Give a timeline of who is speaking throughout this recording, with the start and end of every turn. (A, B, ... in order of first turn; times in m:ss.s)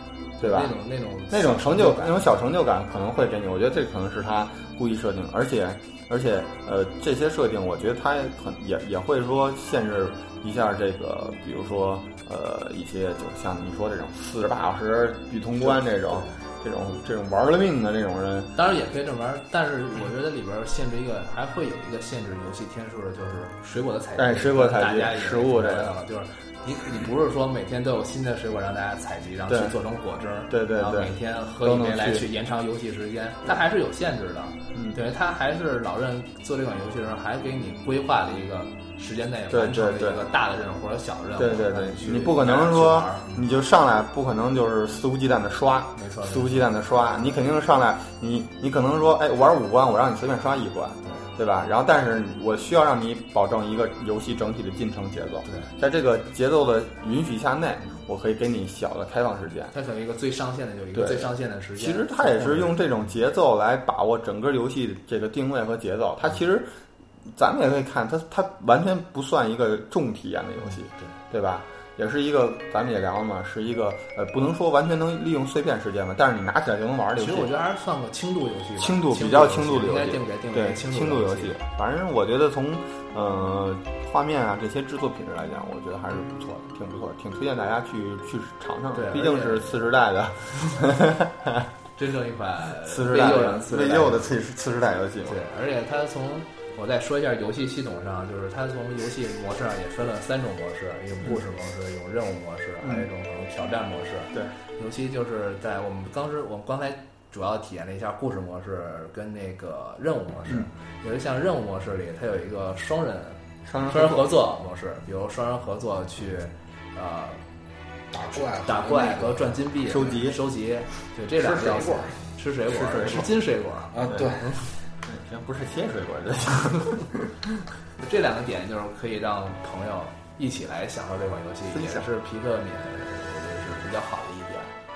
0:00.4-0:00.7 A
0:00.4-0:02.4 B
0:01.3-0:18.5 A
0:18.6-0:43.4 B
0:24.2-0:25.9 A
0:29.5-0:29.8 A
0:30.5-0:32.2 A
0:39.5-0:40.2 A
0:41.4-0:59.7 A
0:46.0-0:46.6 B
0:59.7-1:02.8 B
1:00.9-1:17.5 A
1:17.1-1:21.6 B
1:18.8-1:31.7 A
1:28.9-1:29.8 B
1:32.0-1:34.3 B
1:32.7-1:35.4 A
1:35.2-1:57.4 B
1:42.8-1:43.1 A
1:53.7-1:54.3 A
1:58.1-1:59.6 C
1:58.6-2:04.7 B
1:59.9-2:00.4 A
2:01.4-2:02.3 C
2:02.7-2:03.4 A
2:03.9-2:04.6 C
2:05.0-2:07.6 A
2:08.0-2:14.8 B
2:11.7-2:12.1 A